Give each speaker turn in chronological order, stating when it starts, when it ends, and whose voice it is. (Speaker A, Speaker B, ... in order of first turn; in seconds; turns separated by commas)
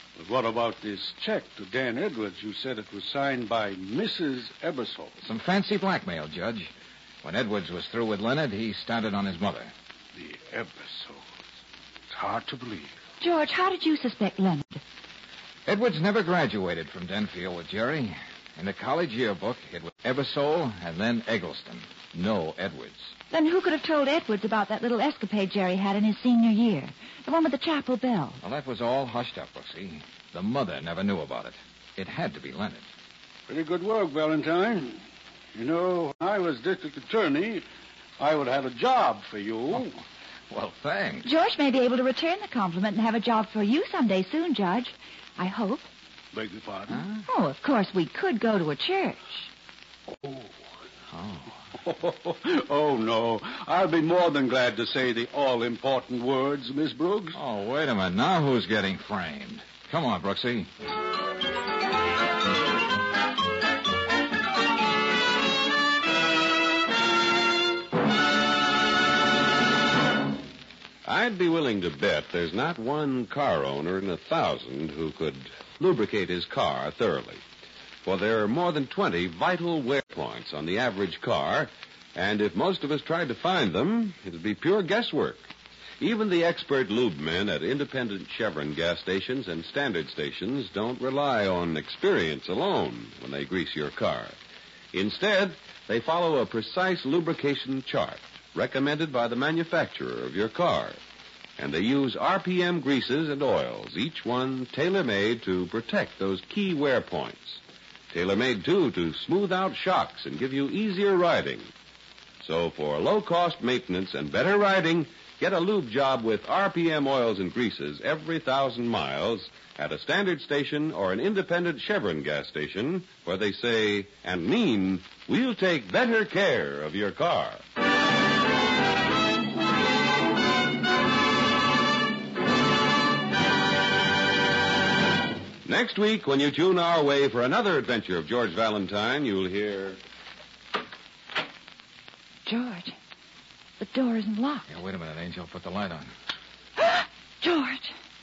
Speaker A: 0.1-5.2, Speaker B: 5.2-6.7, Speaker B: 7.2-9.7, Speaker A: 10.1-11.2, Speaker A: 12.1-12.9, Speaker C: 13.2-14.8, Speaker B: 15.7-23.1, Speaker C: 23.3-28.4, Speaker B: 28.4-32.9, Speaker A: 33.5-35.0, Speaker A: 35.5-37.6, Speaker A: 38.2-40.0, Speaker B: 40.5-41.3, Speaker C: 41.2-45.9, Speaker A: 46.3-47.1, Speaker C: 47.3-49.5, Speaker A: 50.1-50.5, Speaker B: 51.1-51.5, Speaker A: 51.8-57.4, Speaker B: 57.3-60.7, Speaker D: 71.0-77.4, Speaker D: 78.0-94.3, Speaker D: 94.9-101.0, Speaker D: 101.6-111.7, Speaker D: 112.4-127.6, Speaker D: 135.6-140.0, Speaker C: 142.4-142.9, Speaker C: 143.8-144.7, Speaker B: 144.7-146.1, Speaker C: 146.8-147.9